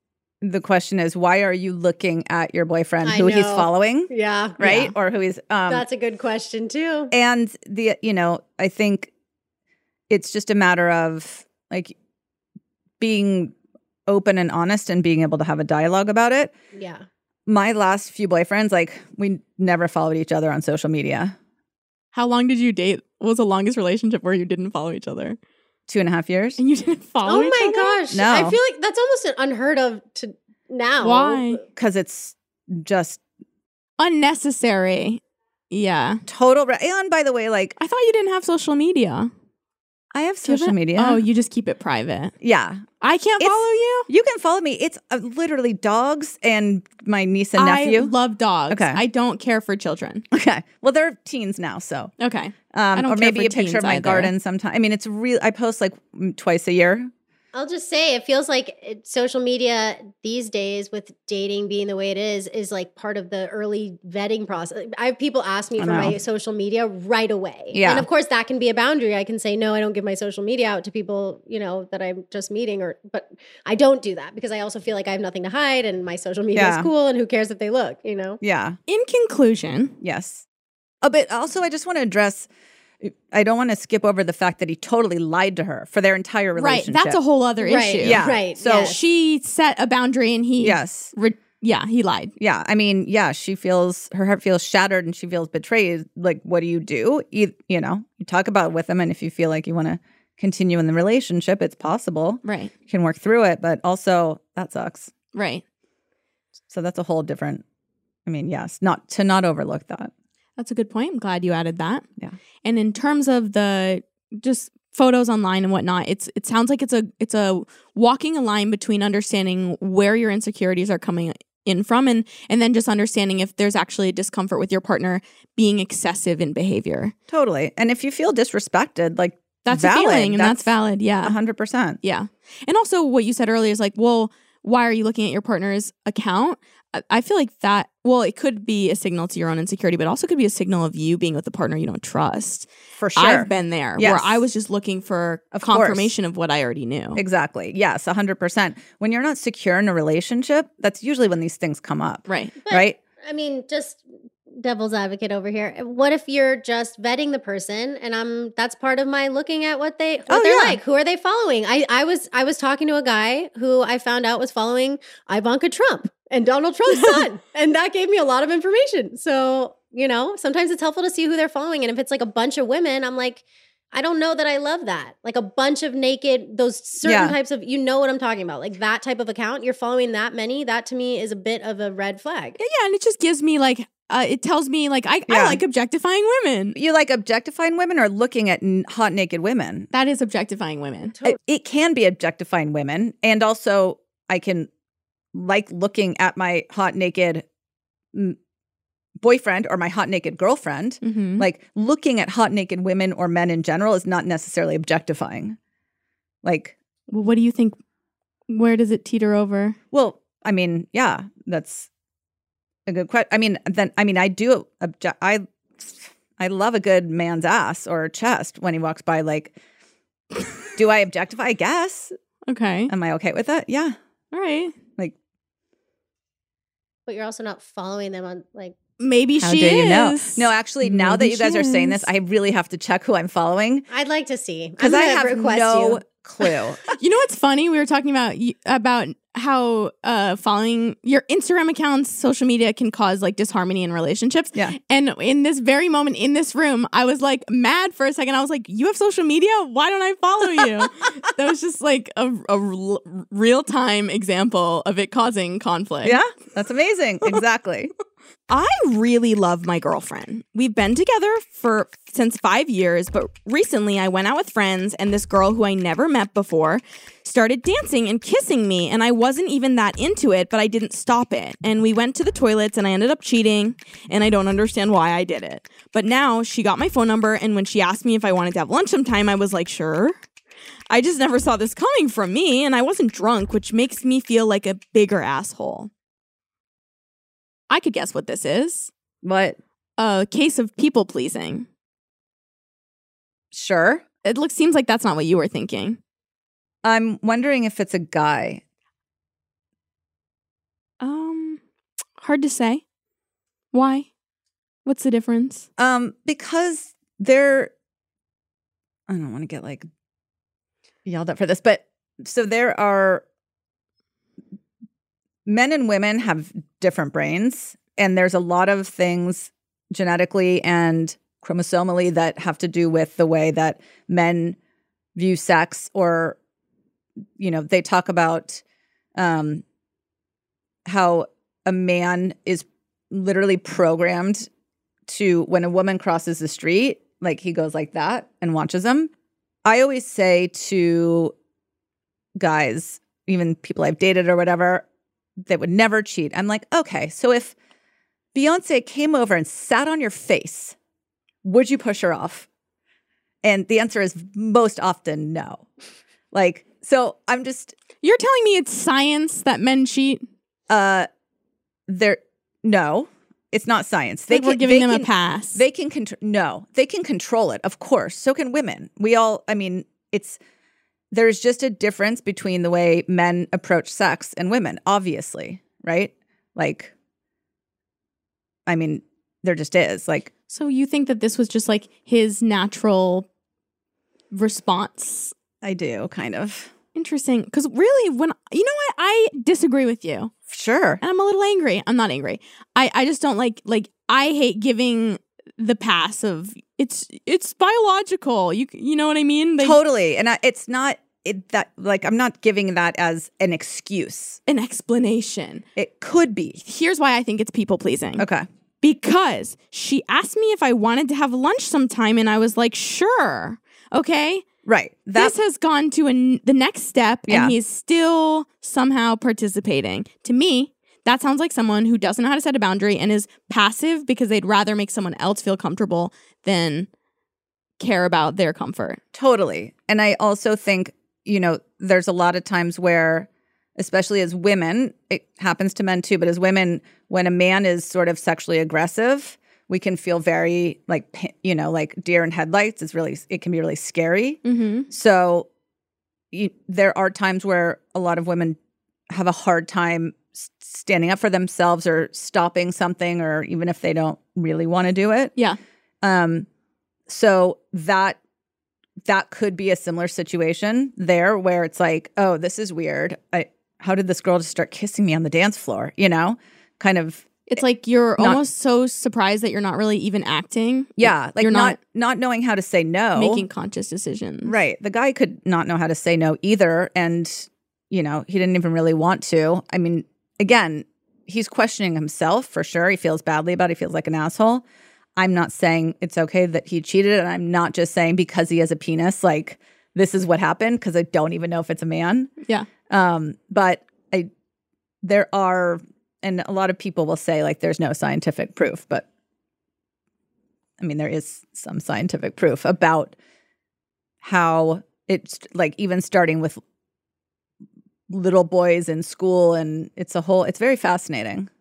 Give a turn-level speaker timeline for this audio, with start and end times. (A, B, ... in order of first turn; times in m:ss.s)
0:00.4-0:05.9 A
0:03.0-0:04.7 B
0:04.6-0:04.9 C
0:05.7-0:07.1 B
0:07.1-0:09.1 A
0:10.1-0:12.0 A
0:13.0-0:13.5 A
0:14.1-0:16.5 A
0:16.7-0:17.1 B
0:17.5-0:21.4 A
0:22.1-0:25.4 C
0:25.9-0:26.6 A
0:26.6-0:28.0 C
0:27.3-0:31.6 B
0:28.1-0:28.6 A
0:31.0-0:31.6 C
0:31.8-0:33.2 A
0:34.0-0:36.2 C
0:36.3-0:37.8 A
0:37.8-0:39.3 C
0:40.1-0:41.2 A
0:40.4-0:42.3 C
0:42.4-0:42.8 A
0:43.0-0:44.1 C
0:43.4-0:48.1 A
0:47.6-0:50.2 C
0:48.7-0:49.0 A
0:50.3-0:52.1 A
0:52.2-0:54.3 C
0:52.7-0:57.1 A
0:57.5-1:18.4 B
1:05.8-1:06.2 A
1:07.7-1:08.1 A
1:16.5-1:16.9 A
1:18.4-1:18.8 A
1:18.9-1:20.0 C
1:20.0-1:20.4 A
1:21.0-1:22.5 A
1:23.0-1:27.2 A
1:26.6-1:32.3 C
1:27.6-1:29.0 B
1:28.0-1:29.0 A
1:30.6-1:31.1 A
1:32.4-1:45.1 A
1:42.4-1:42.7 C
1:45.3-1:45.6 C
1:46.7-1:47.6 A
1:48.3-1:50.1 A
1:50.6-1:52.0 C
1:52.6-2:07.1 C
2:07.3-2:12.0 A
2:09.6-2:11.4 C
2:12.0-2:27.2 C
2:23.0-2:24.4 A
2:25.5-2:26.1 A
2:27.2-2:33.0 A
2:32.3-2:32.6 C
2:32.6-3:02.6 B
2:40.3-2:40.8 A
2:57.0-2:57.4 A
3:02.6-3:06.8 C
3:05.3-3:05.6 A
3:06.8-3:09.9 A
3:09.9-3:11.1 C
3:11.2-3:14.7 A
3:15.3-3:17.5 A
3:19.2-3:25.6 A
3:21.0-3:21.5 C
3:26.4-3:26.8 A
3:27.1-3:27.8 C
3:28.5-3:29.8 C
3:29.9-3:31.9 A
3:32.9-3:39.6 A
3:40.8-3:42.1 A
3:42.5-3:42.9 C
3:42.9-3:44.0 A
3:44.3-3:44.7 C
3:47.1-3:48.8 B
3:49.0-3:52.1 C
3:49.4-3:53.9 A
3:53.9-3:56.0 B
3:54.8-3:56.8 A
3:57.0-4:16.2 C
4:10.5-4:10.8 A
4:16.0-4:17.9 A
4:18.5-4:40.2 C
4:40.9-4:45.9 C
4:47.7-4:48.9 C
4:49.2-4:49.6 A
4:50.0-4:51.7 C
4:53.5-4:54.0 A
4:54.2-4:56.0 C
4:56.8-4:58.6 A
5:01.0-5:01.6 C
5:02.2-5:02.8 C
5:03.7-5:04.1 C
5:04.8-5:05.7 C
5:05.8-5:07.7 A
5:09.1-5:09.9 A
5:11.0-5:13.2 A
5:15.5-5:24.6 A
5:25.2-5:26.4 A
5:27.4-5:28.6 A
5:29.2-5:29.6 A
5:30.9-5:34.5 A
5:35.1-5:39.1 A
5:39.6-5:41.3 A
5:42.4-5:44.8 A
5:45.4-5:47.6 A
5:48.3-5:50.8 A
5:51.4-5:52.5 A
5:53.4-5:55.7 A
5:56.3-5:57.8 A
5:58.0-6:00.2 C
6:00.7-6:01.1 A
6:01.9-6:10.4 A
6:04.3-6:05.6 C
6:11.1-6:16.9 A
6:18.7-6:20.3 A
6:20.5-6:23.3 C
6:24.3-6:25.3 C
6:25.6-6:26.7 A
6:27.0-6:30.3 C
6:30.5-6:31.0 A
6:31.0-6:39.8 C
6:39.6-6:44.4 A
6:44.5-6:45.6 C
6:45.8-6:46.6 A
6:46.6-6:48.2 C
6:48.2-6:48.5 A
6:48.8-6:54.4 C
6:54.6-6:55.4 A
6:55.2-7:06.9 C
6:57.3-6:57.6 A
7:07.8-7:09.0 C
7:09.1-7:25.5 A
7:24.4-7:24.9 C
7:26.3-7:28.6 A
7:29.1-7:35.3 A
7:36.0-7:36.5 A
7:37.1-7:38.2 A
7:39.0-7:47.6 A
7:47.5-7:51.8 C
7:51.0-7:53.4 A
7:53.2-7:54.6 C
7:54.4-8:04.6 A
8:05.2-8:12.3 A
8:12.9-8:14.3 A
8:15.0-8:19.1 A
8:20.8-8:23.2 A
8:24.2-8:26.6 A
8:28.1-8:31.5 A